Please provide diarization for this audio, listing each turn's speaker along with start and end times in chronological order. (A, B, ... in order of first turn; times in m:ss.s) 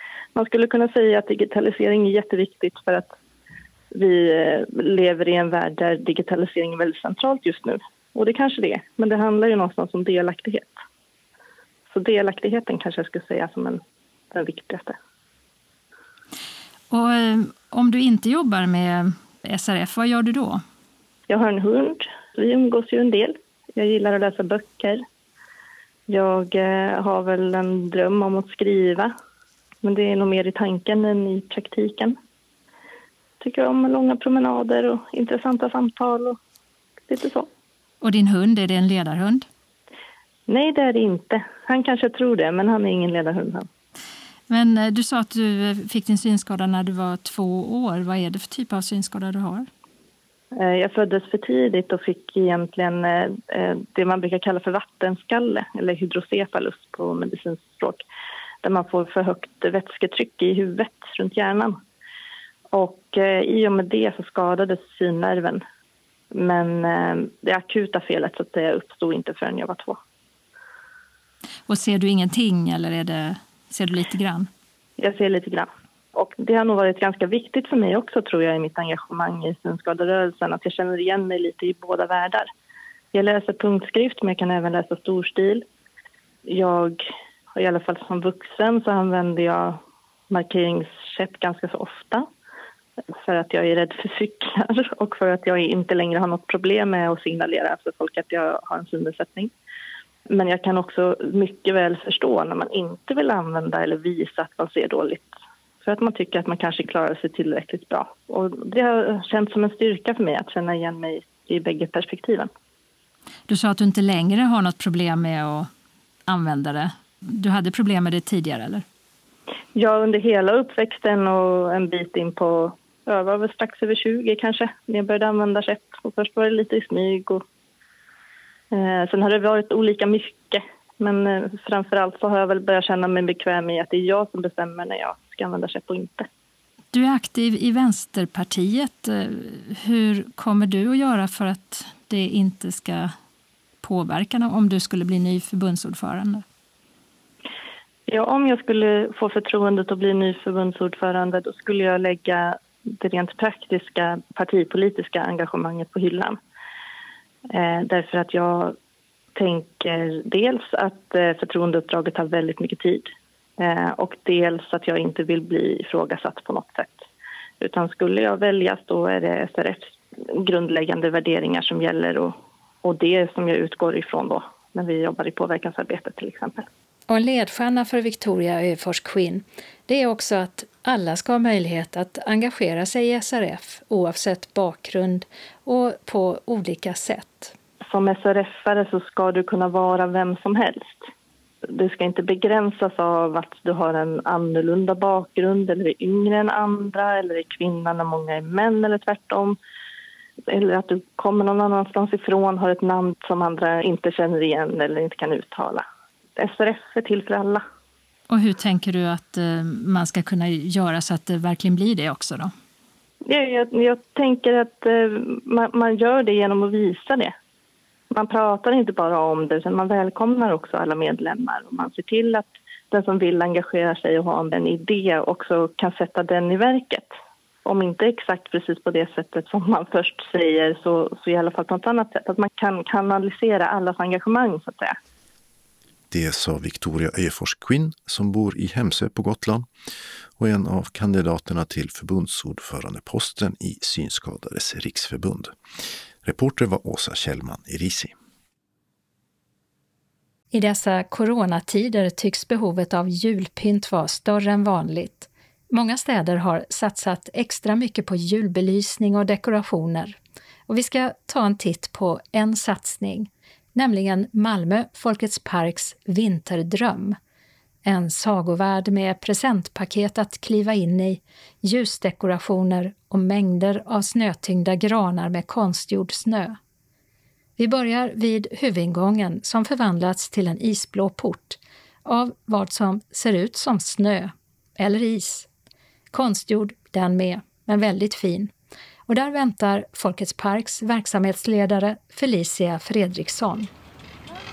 0:00.3-0:03.1 A
0:03.9-0:10.8 A
0:11.9-0:13.8 A
0:14.3-0:15.0 A
0:16.9-0:20.6 B
0:21.3-0:25.0 A
0:26.1-0:29.1 A
0:29.8-0:32.2 A
0:33.4-0:36.4 A
0:37.1-0:37.5 A
0:38.0-0:39.5 B
0:40.5-0:43.7 A
0:44.5-0:49.7 B
0:50.5-0:58.0 A
0:58.6-1:01.8 A
1:02.7-1:05.6 A
1:06.3-1:10.0 A
1:11.7-1:14.5 B
1:15.0-1:22.5 A
1:23.1-1:25.6 A
1:26.4-1:27.0 A
1:27.5-1:32.3 A
1:33.2-1:39.5 A
1:40.3-1:45.3 A
1:45.8-1:52.5 A
1:53.5-1:55.7 B
1:56.3-1:58.8 B
1:59.7-2:07.4 A
2:08.7-2:16.3 A
2:16.9-2:23.1 B
2:23.8-2:26.4 B
2:28.1-2:36.4 A
2:37.5-2:38.8 A
2:39.3-2:43.1 A
2:43.6-2:47.0 A
2:47.6-2:56.7 A
2:57.1-3:07.5 B
3:07.8-3:11.1 A
3:11.6-3:19.6 A
3:20.5-3:25.8 A
3:26.4-3:27.6 A
3:28.3-3:32.5 B
3:33.2-3:37.3 A
3:38.1-3:47.1 A
3:47.6-3:55.0 A
3:56.1-3:59.7 C
4:00.4-4:05.5 C
4:06.2-4:08.1 C
4:10.5-4:20.2 B
4:20.7-4:27.2 B
4:27.8-4:36.6 B
4:37.6-4:45.5 B
4:46.1-4:48.5 B
4:49.1-4:53.7 B